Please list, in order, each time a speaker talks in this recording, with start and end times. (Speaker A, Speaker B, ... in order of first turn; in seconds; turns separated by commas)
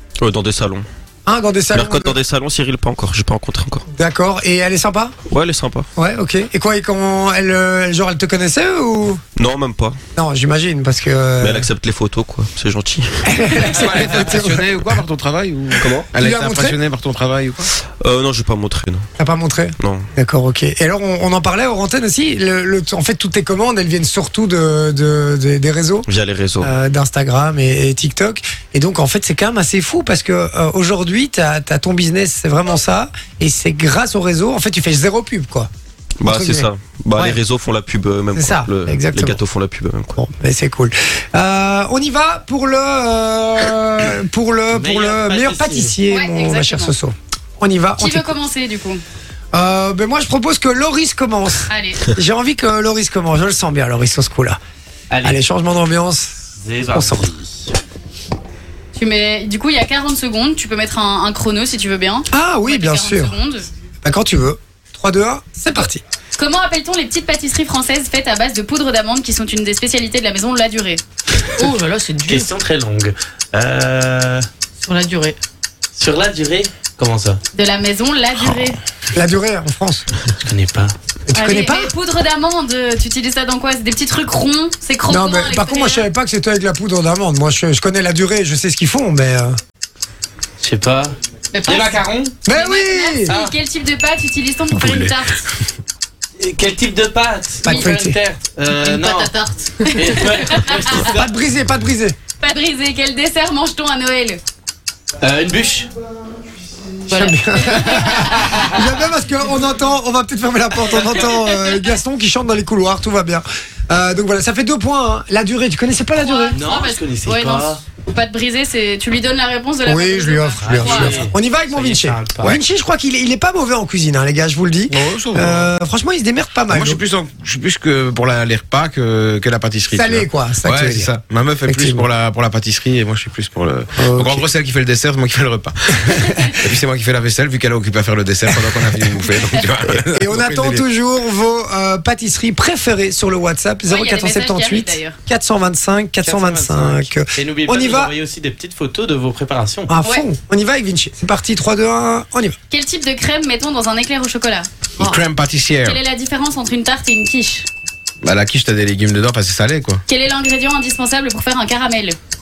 Speaker A: 0.2-0.9, Speaker B: 1.3-2.2, Speaker A: 1.7-3.9, Speaker B: 3.9-5.1, Speaker A: 5.3-5.9, Speaker B: 6.0-9.2, Speaker A: 9.3-10.0, Speaker B: 10.2-11.7, Speaker A: 11.4-13.3, Speaker B: 13.2-15.0, Speaker C: 13.7-17.7, Speaker A: 15.8-16.1, Speaker B: 16.2-16.8, Speaker A: 17.8-19.1, Speaker B: 19.2-26.1, Speaker A: 19.8-20.1, Speaker A: 26.1-26.7, Speaker B: 26.6-35.7, Speaker A: 36.2-40.1, Speaker B: 36.2-37.4, Speaker B: 38.3-39.4, Speaker B: 40.1-48.3, Speaker D: 44.7-45.9, Speaker E: 46.1-46.9, Speaker E: 48.0-49.0, Speaker B: 49.5-54.6, Speaker E: 51.7-52.1, Speaker D: 55.1-55.4, Speaker B: 55.2-56.4, Speaker D: 56.6-57.7, Speaker B: 56.9-57.4, Speaker E: 59.0-63.7, Speaker B: 62.3-63.4, Speaker B: 64.0-66.0, Speaker E: 66.4-71.0, Speaker F: 71.5-72.5, Speaker D: 72.3-74.5, Speaker F: 74.8-75.4, Speaker D: 75.9-77.4, Speaker E: 77.5-78.8, Speaker B: 79.1-80.1, Speaker D: 80.5-81.0, Speaker B: 81.3-81.9, Speaker E: 81.3-86.1, Speaker B: 85.1-89.6, Speaker D: 90.6-92.4, Speaker F: 91.5-92.0, Speaker B: 92.5-93.3, Speaker E: 92.5-95.5, Speaker D: 93.3-93.5, Speaker C: 94.8-95.1, Speaker D: 96.4-99.3, Speaker B: 97.6-98.2, Speaker E: 97.7-97.9, Speaker F: 98.7-100.8, Speaker D: 99.8-101.3, Speaker B: 100.9-102.2, Speaker E: 102.4-104.4, Speaker D: 105.2-105.9, Speaker F: 107.1-107.7, Speaker B: 107.1-116.6, Speaker E: 107.9-108.2, Speaker E: 116.2-121.3, Speaker D: 116.5-117.8, Speaker B: 119.8-127.0, Speaker D: 120.6-122.6, Speaker C: 124.9-125.7, Speaker C: 126.7-140.8, Speaker B: 129.9-131.1, Speaker B: 131.7-132.1, Speaker B: 134.0-134.4, Speaker B: 139.9-148.1, Speaker E: 143.9-145.2, Speaker D: 146.2-149.9, Speaker B: 149.9-152.6, Speaker E: 152.7-154.7, Speaker C: 155.0-156.0, Speaker E: 155.8-157.7, Speaker C: 158.2-160.0, Speaker E: 160.1-162.2